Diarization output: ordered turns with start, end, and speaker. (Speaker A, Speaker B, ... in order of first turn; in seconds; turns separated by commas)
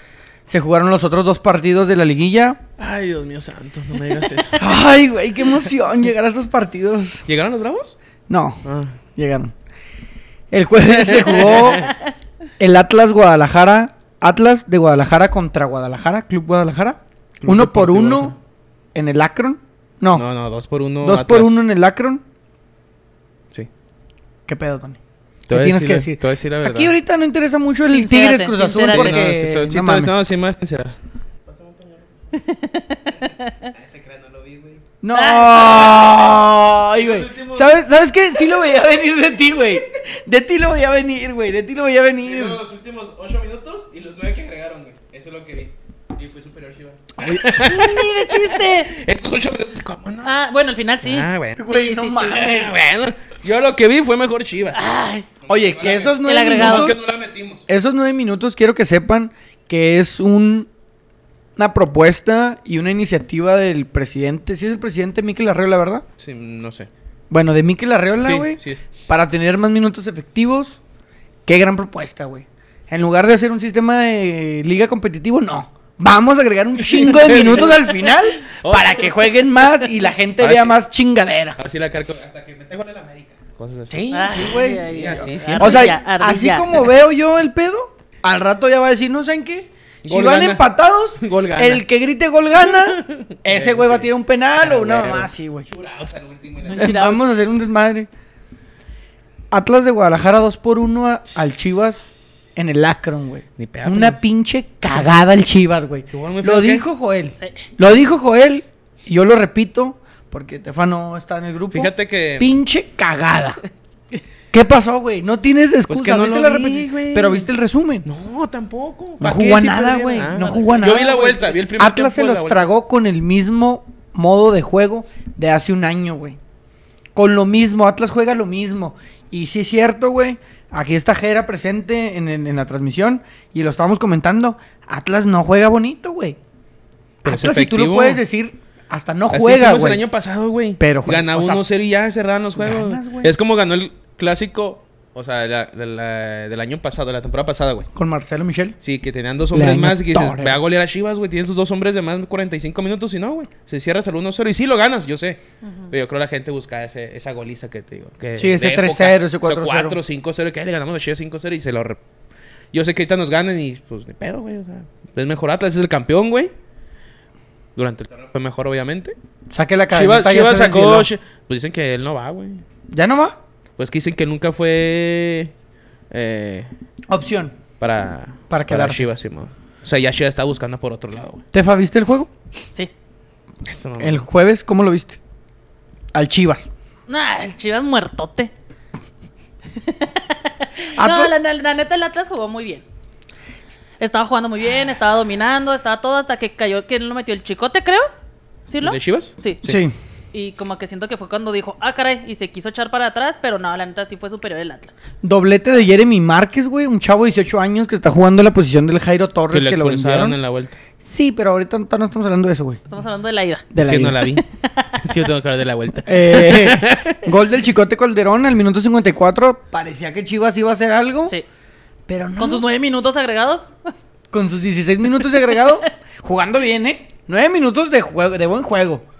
Speaker A: 0.5-2.6, Speaker B: 2.8-4.6, Speaker A: 4.6-7.2, Speaker B: 7.3-8.0, Speaker A: 8.3-8.6, Speaker B: 8.6-8.9, Speaker A: 9.2-9.5, Speaker A: 10.5-11.9, Speaker B: 11.1-11.9, Speaker A: 12.6-18.4, Speaker B: 17.4-18.4, Speaker A: 18.9-20.2, Speaker B: 20.1-21.6, Speaker A: 21.0-22.2, Speaker A: 24.5-25.0, Speaker B: 25.5-26.9, Speaker A: 25.5-30.1, Speaker C: 27.9-29.2, Speaker B: 28.8-32.1, Speaker C: 32.3-33.7, Speaker B: 33.7-34.8, Speaker A: 35.0-42.6, Speaker C: 35.1-35.8, Speaker B: 35.7-36.1, Speaker B: 36.9-37.8, Speaker B: 42.2-50.3, Speaker C: 47.4-48.9, Speaker C: 50.2-52.5, Speaker B: 51.0-51.6, Speaker A: 51.6-52.8, Speaker B: 52.3-54.9, Speaker C: 54.7-55.2, Speaker A: 55.5-57.0, Speaker B: 55.5-57.6, Speaker C: 56.2-57.0, Speaker A: 57.7-60.7, Speaker A: 61.6-66.0, Speaker B: 66.2-66.9, Speaker A: 67.3-70.8, Speaker B: 68.2-68.9, Speaker A: 71.5-81.6, Speaker B: 76.9-79.2, Speaker B: 80.4-80.8, Speaker B: 81.6-86.0, Speaker A: 83.9-95.7, Speaker C: 84.1-86.9, Speaker B: 90.0-90.7, Speaker B: 91.2-91.8, Speaker B: 92.7-97.0, Speaker A: 96.6-98.1, Speaker C: 96.7-97.2, Speaker A: 99.5-113.6, Speaker B: 103.6-104.2, Speaker B: 106.1-106.9, Speaker C: 107.4-107.7, Speaker B: 111.7-112.6, Speaker A: 114.5-118.1, Speaker B: 115.9-117.5, Speaker B: 118.1-122.7, Speaker A: 119.2-126.4, Speaker C: 120.2-121.4, Speaker A: 127.1-136.4, Speaker B: 137.2-138.2, Speaker A: 137.2-140.1, Speaker B: 139.3-147.9, Speaker A: 140.8-141.6, Speaker A: 142.6-143.3, Speaker A: 147.9-148.8, Speaker B: 148.8-162.0, Speaker A: 149.5-150.6, Speaker C: 155.6-155.9, Speaker A: 158.4-160.0, Speaker B: 162.7-166.5, Speaker B: 167.8-169.2, Speaker A: 169.5-171.1, Speaker B: 169.9-172.6, Speaker A: 172.9-173.4, Speaker B: 173.8-175.5, Speaker B: 176.1-176.7, Speaker A: 177.1-177.6, Speaker B: 177.8-181.4, Speaker A: 178.5-179.1, Speaker A: 181.5-182.3, Speaker B: 183.6-184.2, Speaker A: 184.0-185.2, Speaker A: 186.1-186.7, Speaker C: 187.1-188.5, Speaker C: 189.8-192.8, Speaker A: 190.9-191.3, Speaker C: 194.0-198.1, Speaker C: 198.7-199.6, Speaker B: 198.8-199.8, Speaker A: 199.6-199.9, Speaker C: 200.3-205.0, Speaker A: 205.2-210.4, Speaker B: 209.5-210.8, Speaker A: 211.0-212.8, Speaker C: 212.9-213.7, Speaker A: 213.7-214.3, Speaker B: 213.8-214.4, Speaker C: 214.2-215.0, Speaker B: 215.0-217.3, Speaker A: 216.1-221.3, Speaker A: 222.1-222.6, Speaker C: 222.4-223.7, Speaker A: 224.3-229.1, Speaker C: 225.2-225.8